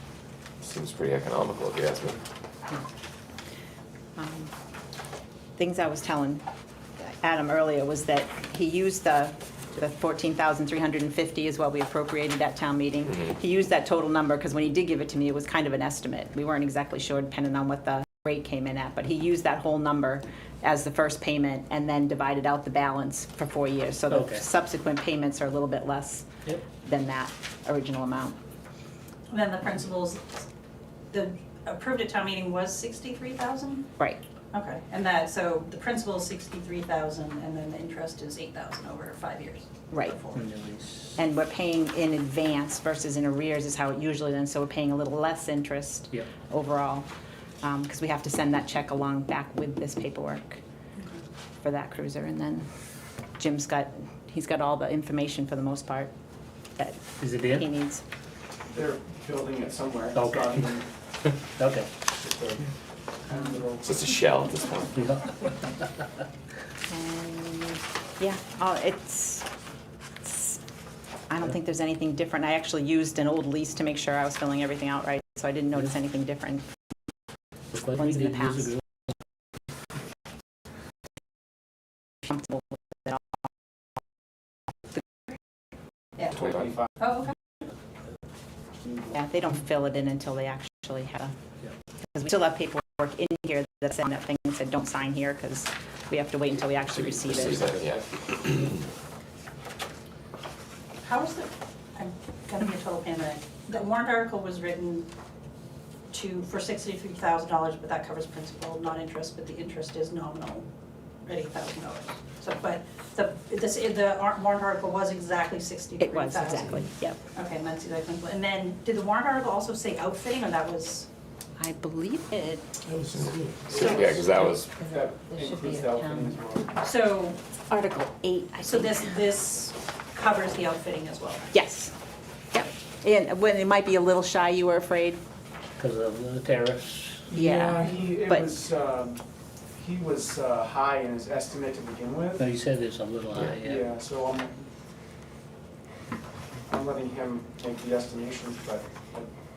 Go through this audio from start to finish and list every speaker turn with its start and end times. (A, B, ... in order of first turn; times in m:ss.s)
0:00.6-0:02.2 A
0:04.2-0:04.5 B
0:05.6-0:06.4 B
0:07.0-0:26.3 B
0:24.1-0:24.4 C
0:26.8-0:28.4 B
0:29.3-0:30.4 D
0:31.1-0:33.9 D
0:34.5-0:40.0 D
0:39.9-0:40.2 B
0:40.3-0:41.2 C
0:41.2-0:47.1 B
0:47.6-0:50.6 B
0:51.6-0:52.6 B
0:53.4-0:56.1 B
0:56.8-0:58.0 B
0:57.2-0:57.6 C
0:58.7-1:00.9 E
1:00.1-1:00.8 C
1:01.6-1:01.9 C
1:02.1-1:02.7 E
1:03.2-1:03.9 E
1:03.8-1:04.9 A
1:04.9-1:05.3 C
1:06.9-1:09.4 B
1:10.2-1:10.6 B
1:11.3-1:16.6 B
1:17.7-1:18.8 C
1:18.0-1:18.7 B
1:22.2-1:22.5 B
1:26.3-1:26.8 A
1:27.0-1:27.3 D
1:29.1-1:31.3 B
1:32.1-1:37.7 B
1:37.0-1:38.8 A
1:41.0-1:45.1 D
1:46.1-1:50.7 D
1:51.2-1:56.8 D
1:56.0-1:57.2 B
1:57.3-2:01.1 D
2:01.6-2:02.6 B
2:03.1-2:04.7 A
2:03.7-2:04.2 E
2:04.8-2:06.8 E
2:04.8-2:06.4 B
2:06.8-2:07.4 D
2:07.7-2:09.2 B
2:08.6-2:11.5 D
2:11.5-2:11.9 B
2:12.5-2:15.2 B
2:15.8-2:17.3 C
2:17.3-2:19.2 E
2:17.3-2:18.6 B
2:19.8-2:22.4 E
2:22.4-2:23.9 C
2:23.6-2:24.6 E
2:26.7-2:29.3 E